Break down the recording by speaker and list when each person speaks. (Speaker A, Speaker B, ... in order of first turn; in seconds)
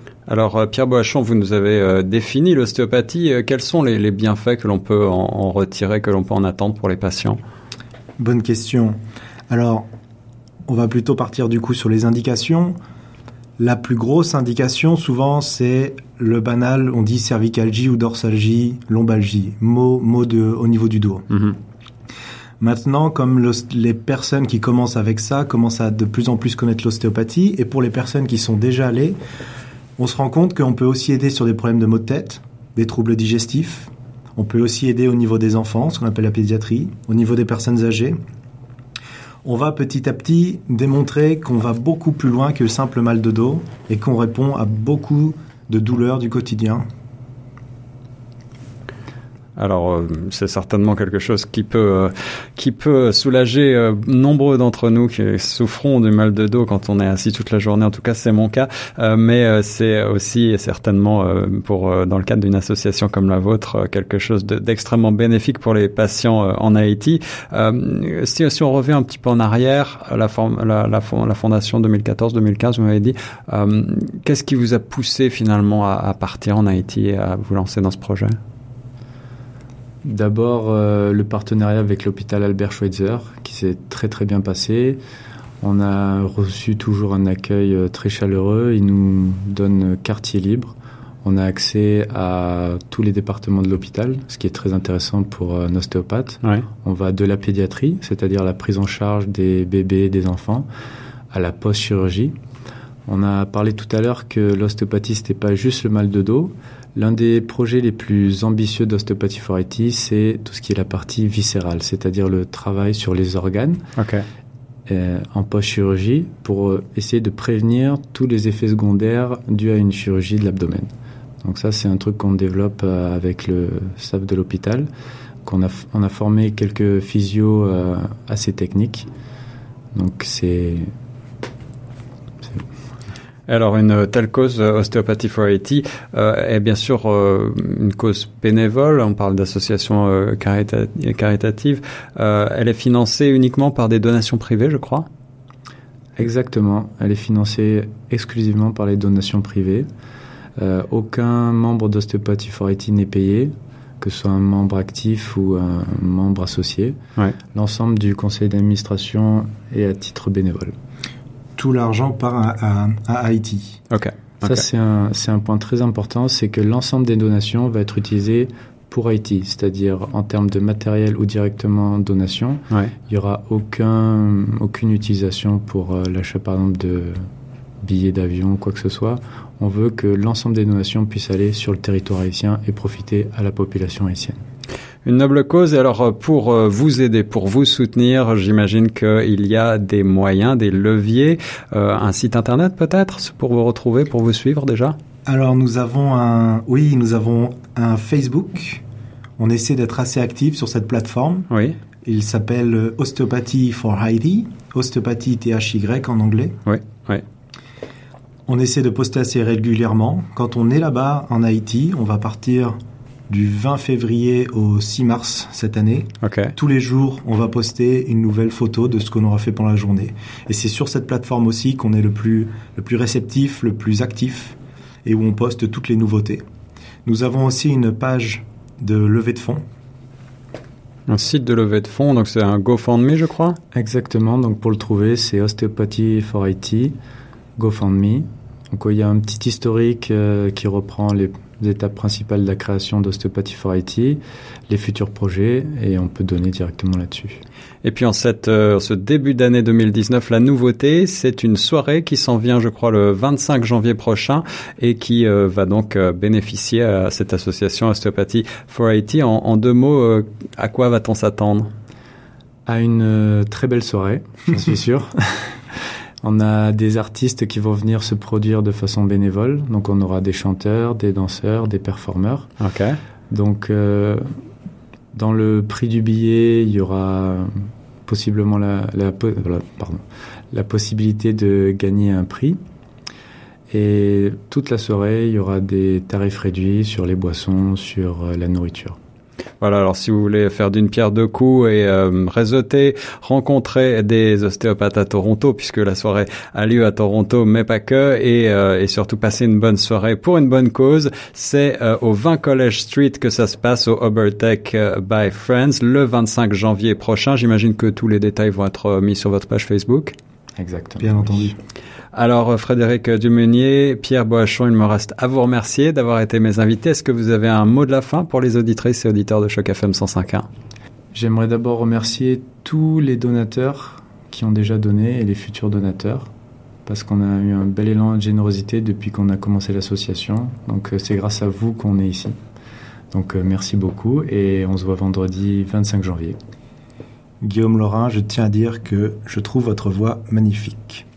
Speaker A: 0.3-7.4, 21.3-21.6, 49.6-78.3, 114.0-114.2, 133.5-145.1, 163.9-164.6, 185.0-194.9, 201.5-201.8, 206.7-207.2, 216.2-216.5, 231.1-233.6, 247.8-261.7, 272.6-273.0, 289.6-310.1, 312.1-320.4
Speaker B: 8.2-9.0, 9.5-9.8, 10.7-12.8, 13.6-21.3, 22.6-29.2, 30.0-38.1, 39.4-46.8, 161.6-163.8, 195.2-198.8, 199.4-201.5, 202.0-206.6, 208.5-212.7, 213.3-226.4, 227.1-229.6, 311.0-311.5, 337.4-341.0
Speaker C: 80.0-85.0, 85.6-100.7, 101.3-102.3, 103.1-113.8, 114.9-120.9, 121.4-124.9, 125.4-129.1, 129.9-130.9, 146.2-149.8, 150.6-157.0, 157.5-160.7, 164.4-177.2, 177.8-184.4, 233.7-236.9, 237.6-247.4, 262.6-265.6, 266.2-272.5, 273.3-274.2, 275.1-277.5, 278.1-282.6, 283.7-289.0, 310.6-311.5, 321.1-326.3, 326.9-332.4, 333.1-336.4